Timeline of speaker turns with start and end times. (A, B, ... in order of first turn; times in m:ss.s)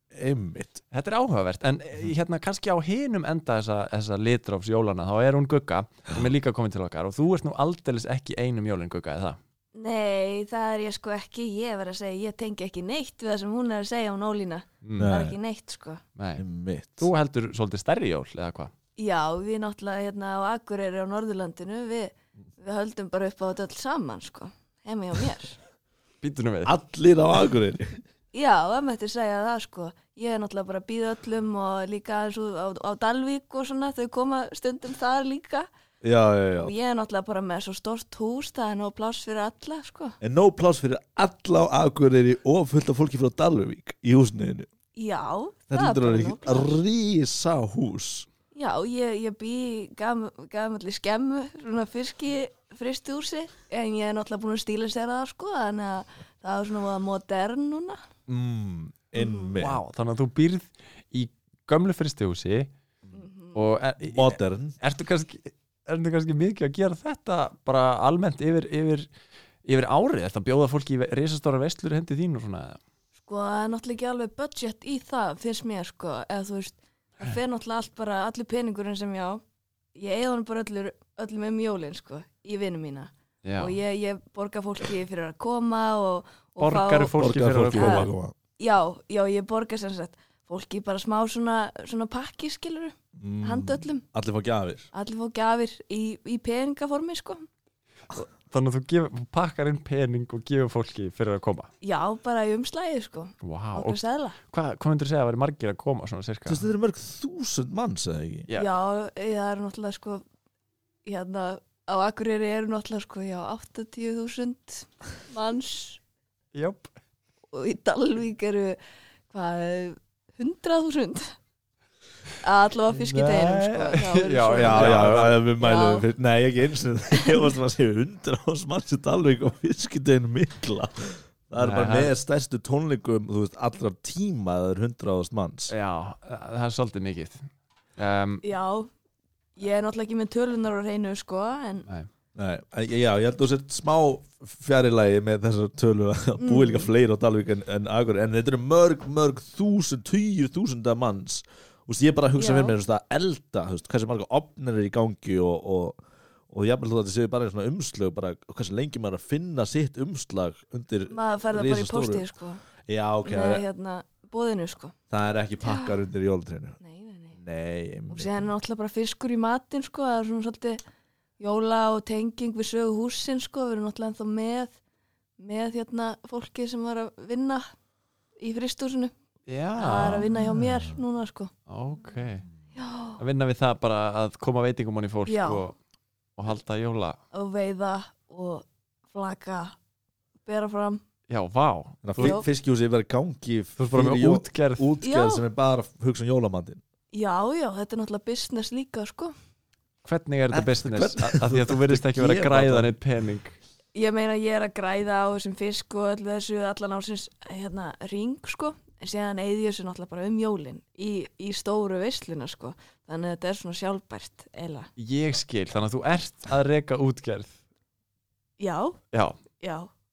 0:00.1-0:00.8 A
0:00.9-0:09.4 B
0:09.7-0:16.0 C
0:14.8-0:15.1 B
0:15.0-0:15.4 A
0:16.2-0:16.4 B
0:16.4-0:17.1 A
0:17.0-0:18.7 B
0:19.0-0:25.6 C
0:26.2-0:26.7 B
0:26.6-0:28.0 A
0:28.3-0:35.7 C
0:36.0-0:36.7 A
0:36.6-0:40.2 C
0:40.2-0:44.7 A
0:44.9-0:46.8 C
0:45.7-0:48.3 A
0:48.5-0:58.0 C
0:58.3-0:59.8 A
0:59.5-1:02.7 B
1:03.1-1:03.7 C
1:03.5-1:09.1 B
1:04.0-1:04.8 A
1:09.6-1:12.8 B
1:13.2-1:19.4 C
1:20.0-1:34.0 C
1:23.4-1:23.8 B
1:26.6-1:28.1 B
1:27.2-1:28.3 A
1:33.2-1:34.9 A
1:34.9-1:37.5 C
1:38.1-1:41.7 B
1:41.8-1:44.4 C
1:43.4-1:46.7 B
1:46.4-1:48.5 A
1:48.5-1:50.2 C
1:51.0-1:56.0 C
1:56.5-1:56.9 B
1:57.5-1:58.8 C
1:59.3-2:01.3 C
2:02.4-2:05.1 C
2:02.9-2:05.4 B
2:04.5-2:15.7 A
2:05.6-2:06.1 C
2:11.6-2:12.1 B
2:15.7-2:18.4 B
2:18.4-2:18.9 C
2:19.6-2:21.8 C
2:22.4-2:42.2 A
2:26.4-2:26.9 C
2:32.4-2:32.8 C
2:41.1-2:42.6 C
2:42.9-2:43.6 A
2:43.2-2:44.9 C
2:45.1-2:46.8 A
2:45.6-2:46.0 C
2:46.8-2:47.4 C
2:47.3-2:48.5 A
2:48.1-2:50.8 C
2:51.4-2:54.8 C
2:55.4-2:57.6 C
2:58.4-2:59.1 C
2:59.5-3:00.3 B
2:59.8-3:01.5 C
3:00.3-3:01.0 A
3:01.7-3:02.4 B
3:02.7-3:03.2 C
3:03.2-3:05.7 B
3:05.2-3:05.7 C
3:06.4-3:07.2 B
3:07.3-3:09.7 C
3:10.4-3:11.0 C
3:11.3-3:12.4 B
3:12.0-3:16.8 A
3:12.2-3:12.5 C
3:13.8-3:14.9 B
3:15.0-3:15.4 C
3:17.1-3:19.3 C
3:20.0-3:23.6 B
3:20.5-3:22.9 A
3:23.9-3:34.9 C
3:35.0-3:37.6 B
3:38.6-3:39.0 C
3:39.1-3:39.4 B
3:39.6-3:39.9 C